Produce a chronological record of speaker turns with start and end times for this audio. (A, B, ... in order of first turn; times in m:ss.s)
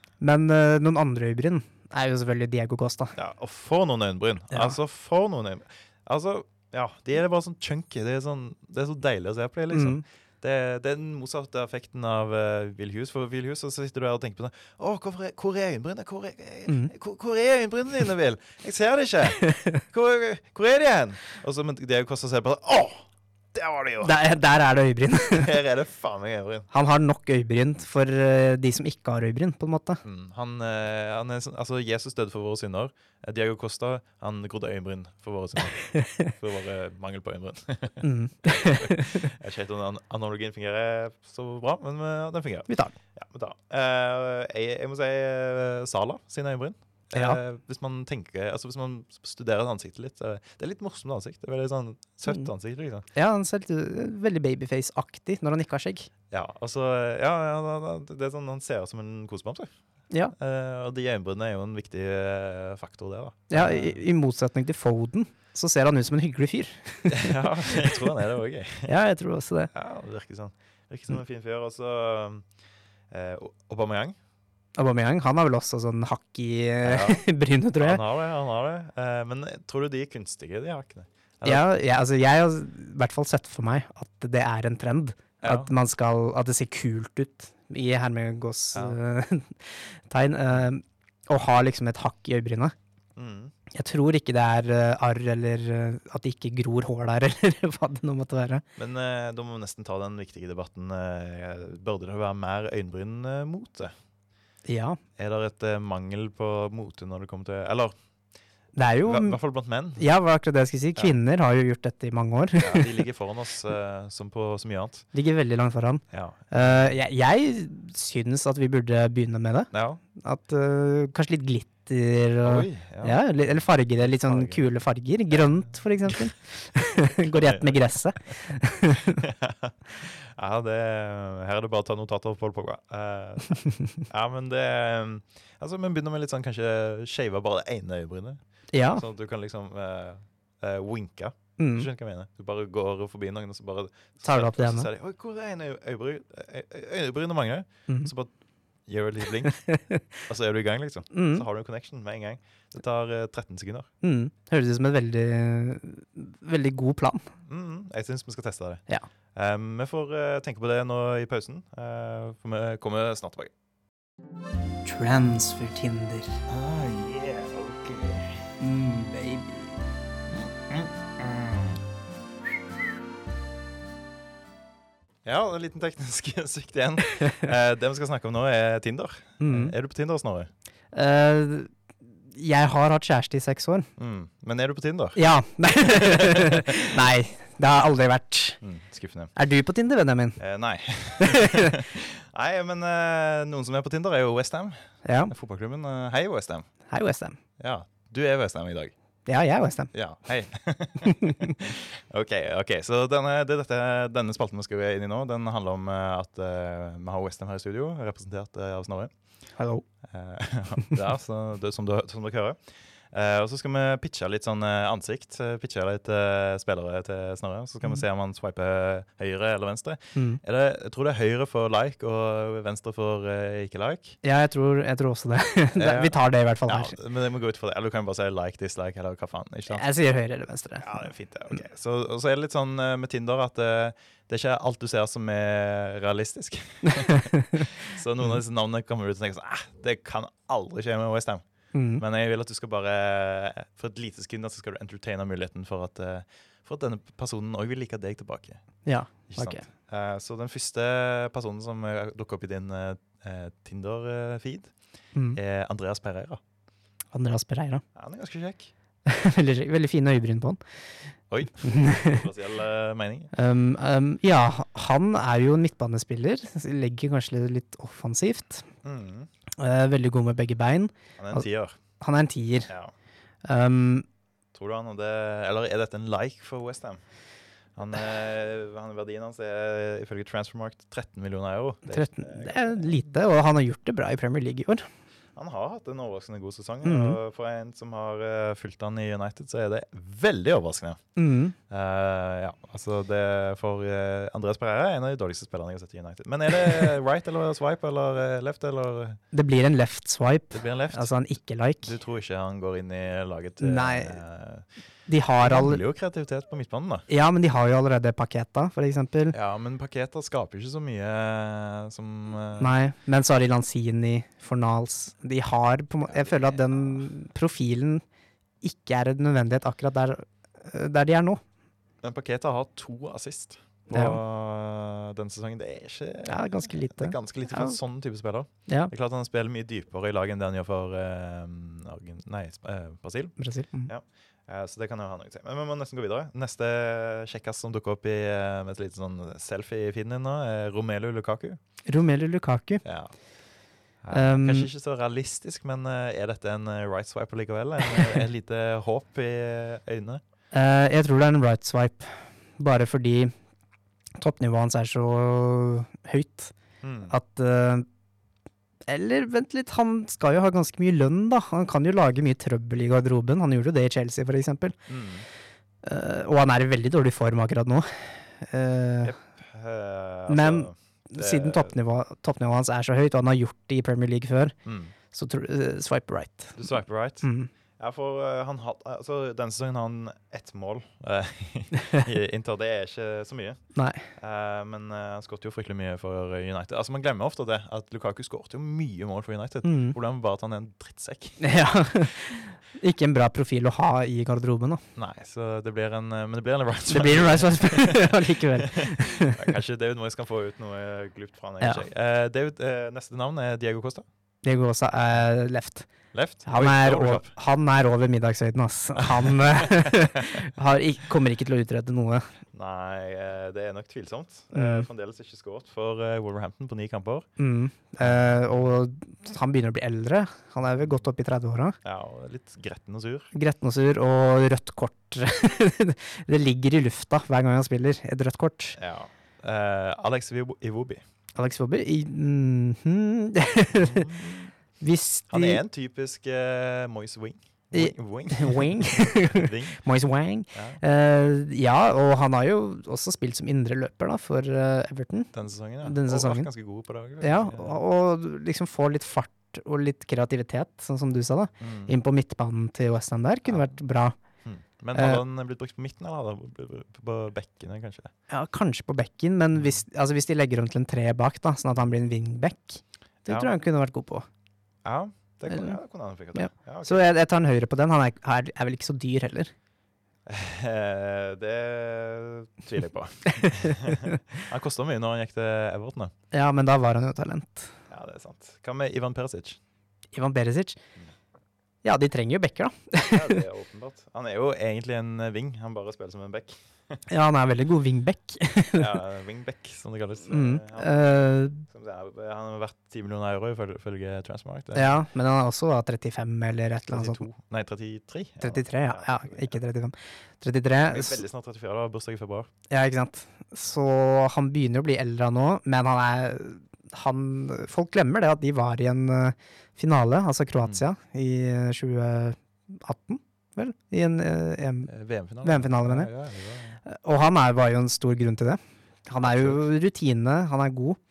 0:00.2-0:03.1 A
0:03.2-0:24.2 B
0:04.5-0:04.8 A
0:09.7-0:10.0 A
0:16.7-0:16.9 A
0:19.4-0:19.8 A
0:24.0-0:25.5 A
0:25.3-0:26.7 B
0:26.7-0:30.0 A
0:30.0-0:53.0 B
0:38.0-0:39.3 A
0:42.7-0:42.9 A
0:47.1-0:47.4 A
0:53.1-0:56.1 A
0:56.3-0:59.7 B
1:00.3-1:04.0 B
1:03.5-1:07.9 A
1:07.1-1:08.9 B
1:08.8-1:09.7 A
1:09.7-1:12.4 B
1:13.1-1:14.2 B
1:14.8-1:18.0 A
1:16.8-1:17.2 B
1:17.8-1:21.6 B
1:21.4-1:32.7 A
1:25.4-1:25.7 B
1:33.2-1:33.5 B
1:33.7-1:38.6 A
1:38.8-1:43.9 B
1:44.7-1:45.0 A
1:45.2-1:47.9 B
1:48.7-1:49.4 A
1:49.0-1:50.1 B
1:50.0-1:53.0 A
1:52.6-1:55.0 B
1:55.1-2:09.2 A
1:56.1-1:56.9 B
1:59.7-2:00.0 B
2:02.4-2:04.6 B
2:07.3-2:07.8 B
2:09.1-2:18.4 B
2:18.7-2:19.0 A
2:18.9-2:28.3 B
2:21.6-2:21.9 A
2:24.2-2:24.9 A
2:28.9-2:29.5 B
2:29.5-2:30.0 A
2:30.2-2:33.9 B
2:31.1-2:31.4 A
2:34.0-2:37.2 A
2:37.4-2:38.8 B
2:39.3-2:43.5 B
2:44.8-2:46.4 A
2:46.5-2:48.4 B
2:48.6-2:49.7 A
2:50.3-2:51.7 B
2:55.2-3:00.5 B
2:59.4-2:59.7 A
3:00.9-3:01.7 A
3:02.3-3:03.9 A
3:04.0-3:05.2 B
3:05.2-3:08.6 A
3:05.7-3:06.9 B
3:08.6-3:09.3 B
3:09.4-3:10.4 A
3:10.4-3:16.7 B
3:11.2-3:11.7 A
3:15.0-3:15.3 A
3:16.9-3:17.4 A
3:17.6-3:18.9 B
3:19.3-3:19.9 A
3:19.9-3:29.1 B
3:29.6-3:29.8 A
3:30.1-3:32.6 B
3:33.1-3:44.2 B
3:40.1-3:40.4 A
3:44.2-3:46.9 A
3:45.8-3:49.8 B
3:49.7-3:51.0 A
3:50.8-4:01.4 B
3:56.9-3:57.6 A
4:01.7-4:02.0 A
4:02.0-4:08.6 B
4:08.8-4:09.7 A
4:09.3-4:14.7 B
4:15.3-4:16.4 B
4:17.1-4:17.8 A
4:17.9-4:18.7 B
4:19.0-4:20.6 A
4:21.3-4:23.3 B
4:21.6-4:22.2 A
4:23.3-4:28.7 A
4:28.8-4:29.3 B
4:29.6-4:31.4 A
4:31.2-4:31.8 B
4:32.0-4:32.7 A
4:32.7-4:32.9 B
4:33.4-4:34.0 A
4:34.5-4:37.0 B
4:37.8-4:42.9 B
4:41.9-4:44.8 A
4:45.4-4:51.0 B
4:46.8-4:47.2 A
4:51.2-4:51.6 A
4:51.7-4:59.2 B
4:59.3-5:01.9 A
5:00.5-5:01.1 B
5:01.8-5:04.6 B
5:03.6-5:04.2 A
5:05.1-5:05.8 A
5:05.4-5:07.0 B
5:07.1-5:09.3 A
5:09.3-5:12.7 B
5:12.6-5:18.0 A
5:16.1-5:17.1 B
5:18.6-5:21.4 A
5:22.0-5:41.6 B
5:23.9-5:24.2 A
5:26.3-5:27.8 A
5:33.4-5:33.9 A
5:41.9-5:42.8 A
5:42.8-5:43.1 B
5:44.0-5:50.2 B
5:44.1-5:44.7 A
5:50.5-5:53.3 A
5:54.2-5:56.5 A
5:56.8-5:57.1 B
5:57.1-5:57.8 A
5:58.9-6:04.8 A
6:04.9-6:05.2 B
6:05.8-6:09.1 A
6:09.0-6:11.7 B
6:10.3-6:14.5 A
6:14.6-6:14.9 B
6:15.1-6:16.7 A
6:16.6-6:17.2 B
6:17.2-6:17.5 A
6:17.8-6:23.6 B
6:23.7-6:24.0 A
6:24.2-6:31.4 B
6:29.6-6:30.0 A
6:31.4-6:34.8 A
6:35.0-6:44.0 B
6:36.9-6:39.4 A
6:44.4-6:45.9 A
6:46.1-6:47.3 B
6:46.4-6:52.3 A
6:49.0-6:50.3 B
6:52.5-6:57.3 B
6:54.5-6:54.9 A
6:57.4-7:01.8 A
6:58.0-6:58.4 B
7:01.8-7:03.3 B
7:03.3-7:08.8 A
7:08.8-7:11.0 B
7:11.4-7:14.1 A
7:13.8-7:14.5 B
7:14.8-7:15.6 A
7:15.3-7:19.8 B
7:17.7-7:25.3 A
7:20.5-7:20.8 B
7:25.3-7:27.8 B
7:25.8-7:26.5 A
7:27.2-7:34.2 A
7:31.6-7:31.9 B
7:33.5-7:33.7 B
7:34.4-7:38.1 B
7:34.9-7:35.2 A
7:38.3-7:44.2 A
7:39.5-7:39.8 B
7:44.8-7:47.0 B
7:45.5-7:45.8 A
7:46.3-7:49.5 A
7:50.2-7:56.1 B
7:53.3-7:54.1 A
7:56.3-7:57.7 A
7:57.9-7:59.6 B
8:00.1-8:00.8 A
8:01.8-8:03.4 A
8:03.0-8:07.0 B
8:07.1-8:08.9 A
8:08.7-8:15.0 B
8:10.3-8:11.6 A
8:14.7-8:17.2 A
8:16.9-8:19.6 B
8:18.4-8:21.2 A
8:20.9-8:22.5 B
8:22.7-8:34.9 A
8:34.9-8:36.8 B
8:35.4-8:36.1 A
8:36.8-8:41.0 A
8:39.2-8:39.6 B